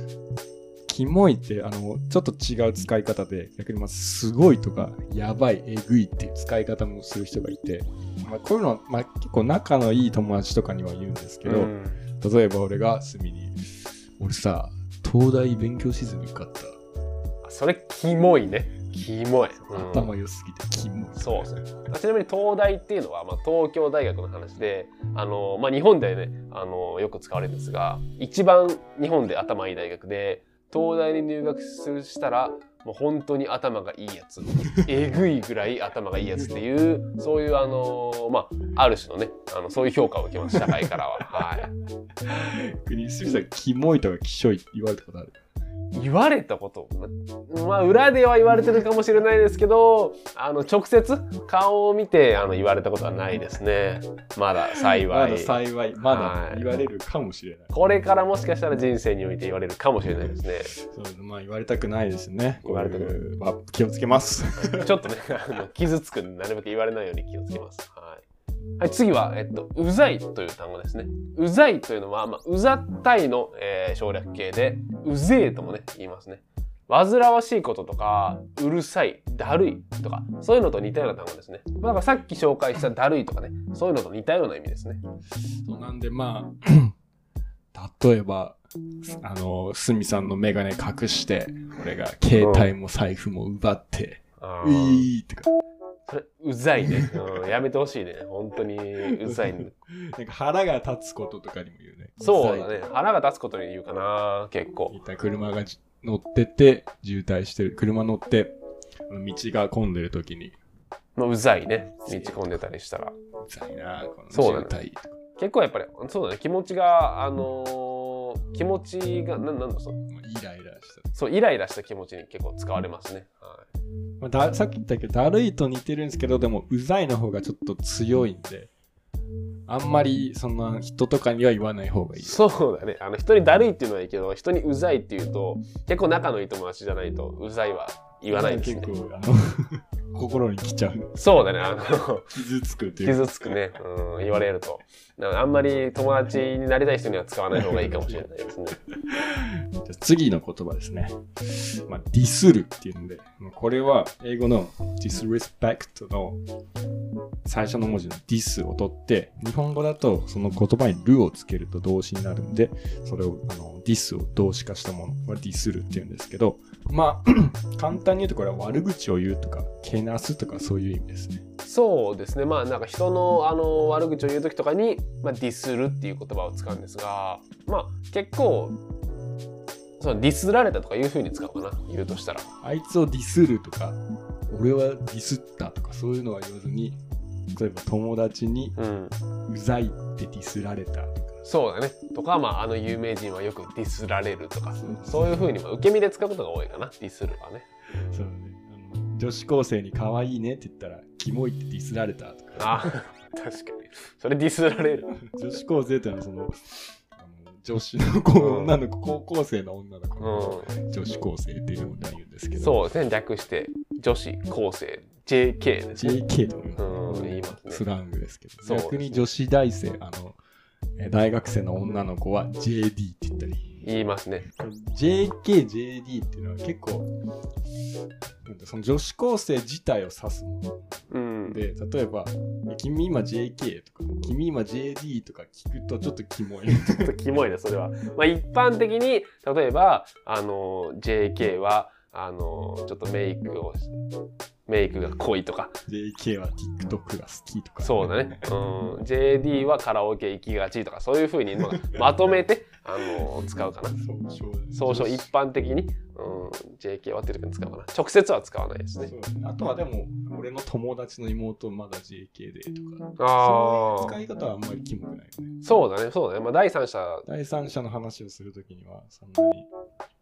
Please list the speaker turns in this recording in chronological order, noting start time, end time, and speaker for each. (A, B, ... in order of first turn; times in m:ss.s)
0:00.9-0:16.8 A
0:11.4-0:12.0 B
0:17.4-0:20.1 B
0:19.7-0:21.6 A
0:21.2-0:41.7 B
0:40.5-0:40.8 A
0:42.2-0:45.4 A
0:45.9-0:56.6 B
0:54.9-0:57.7 A
0:57.7-1:00.7 B
1:00.2-1:04.9 A
1:02.6-1:03.2 B
1:04.6-1:08.2 B
1:08.8-1:25.0 B
1:25.6-1:26.9 A
1:27.7-1:35.5 A
1:32.4-1:32.7 B
1:34.4-1:35.1 B
1:36.1-1:39.7 B
1:36.8-1:37.2 A
1:39.1-1:42.9 A
1:42.2-1:44.9 B
1:44.9-1:48.6 A
1:49.1-1:50.6 A
1:51.2-1:53.1 B
1:52.0-1:52.6 A
1:53.4-1:55.2 A
1:54.3-1:54.8 B
1:55.4-2:00.0 B
2:00.1-2:01.2 A
2:01.1-2:03.6 B
2:04.2-2:08.7 A
2:09.7-2:12.4 A
2:12.2-2:18.9 B
2:18.3-2:21.5 A
2:21.1-2:22.3 B
2:22.2-2:23.5 A
2:23.0-2:28.8 B
2:27.5-2:28.3 A
2:29.1-2:36.4 A
2:37.4-2:51.4 A
2:51.6-2:58.8 B
3:00.0-3:02.5 B
3:02.6-3:07.0 A
3:07.5-3:08.8 A
3:08.8-3:09.1 B
3:09.5-3:11.4 A
3:11.4-3:18.3 B
3:14.8-3:15.5 A
3:18.1-3:22.9 A
3:22.6-3:25.2 B
3:25.2-3:32.8 A
3:28.4-3:28.8 B
3:30.2-3:30.7 B
3:32.6-3:36.2 B
3:36.0-3:40.4 A
3:36.8-3:37.8 B
3:38.6-3:39.2 B
3:41.0-3:43.8 A
3:43.8-3:44.5 B
3:44.5-3:47.1 A
3:48.4-3:50.9 A
3:51.1-3:51.6 B
3:51.5-3:57.2 A
3:56.9-4:03.9 B
4:04.7-4:05.7 B
4:05.9-4:08.5 A
4:07.8-4:14.0 B
4:11.7-4:12.0 A
4:14.0-4:15.3 A
4:14.7-4:19.1 B
4:19.0-4:25.6 A
4:23.2-4:24.2 B
4:25.6-4:27.3 B
4:27.3-4:29.7 A